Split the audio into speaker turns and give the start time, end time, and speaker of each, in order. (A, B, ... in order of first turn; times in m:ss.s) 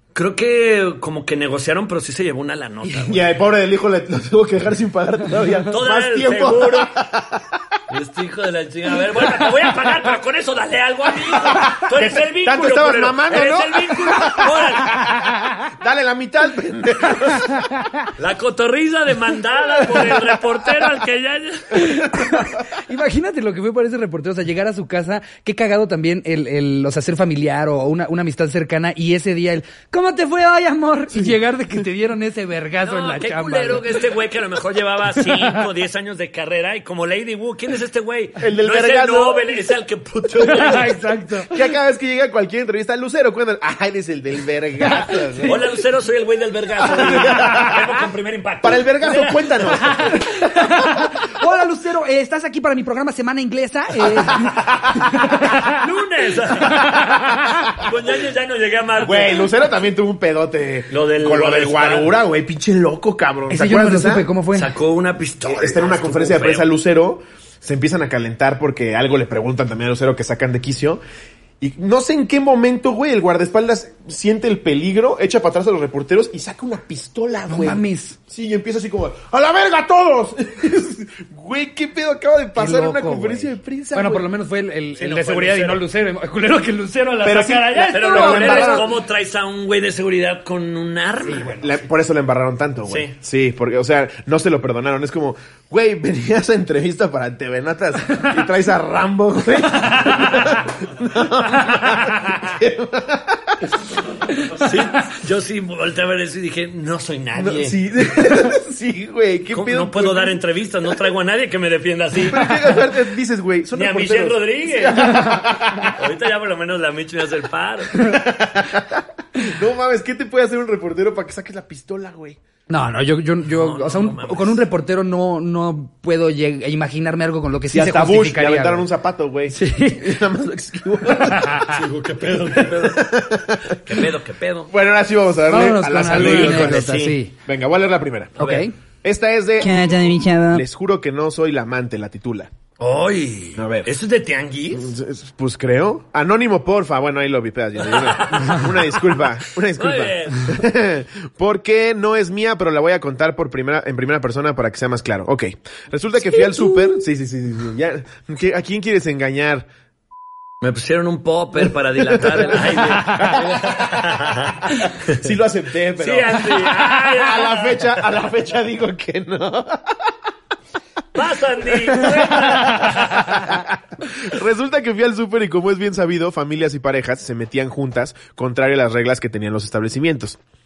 0:00.1-0:03.3 A
0:02.9-0:07.6 B
0:05.7-0:07.0 A
0:07.9-0:15.1 A
0:11.4-0:17.6 B
0:15.0-0:15.7 C
0:17.3-0:18.1 C
0:18.2-0:22.0 A
0:19.8-0:20.3 B
0:21.7-0:34.0 C
0:32.8-0:41.0 A
0:35.2-0:35.6 C
0:38.4-0:39.7 B
0:40.4-0:41.5 C
0:41.4-0:45.6 B
0:44.9-0:45.6 C
0:45.4-0:50.2 A
0:46.8-0:47.9 B
0:47.3-0:47.7 C
0:48.6-0:50.2 B
0:49.8-0:55.8 C
0:54.2-0:55.1 B
0:55.5-0:59.6 A
0:56.6-0:57.6 C
0:57.4-0:57.9 B
0:59.0-1:04.3 B
1:00.9-1:02.1 A
1:03.5-1:04.7 C
1:04.5-1:06.7 A
1:05.4-1:11.0 B
1:11.6-1:24.3 B
1:17.5-1:18.2 C
1:22.6-1:28.9 C
1:25.0-1:25.8 A
1:27.2-1:29.0 B
1:27.4-1:31.6 A
1:31.3-1:31.8 C
1:31.6-1:43.8 B
1:32.9-1:33.1 A
1:44.5-1:47.8 A
1:47.4-1:50.4 B
1:49.5-1:52.8 A
1:52.2-1:56.0 B
1:53.7-1:55.3 A
1:55.1-1:55.4 C
1:55.9-1:58.2 A
1:58.0-2:02.4 B
2:02.7-2:08.8 C
2:03.4-2:04.6 A
2:07.7-2:14.0 B
2:09.5-2:10.2 C
2:11.1-2:11.8 C
2:11.7-2:13.1 A
2:13.7-2:14.7 A
2:14.7-2:18.4 B
2:15.5-2:17.3 C
2:16.1-2:17.2 A
2:18.4-2:18.7 A
2:18.4-2:18.7 C
2:19.0-2:19.9 B
2:19.6-2:20.6 C
2:20.5-2:22.5 B
2:22.8-2:24.9 A
2:23.6-2:23.9 B
2:24.7-2:39.7 B
2:27.8-2:30.6 A
2:40.6-2:45.2 A
2:42.0-2:50.0 B
2:46.0-2:47.9 A
2:51.1-2:53.5 A
2:51.9-3:00.4 B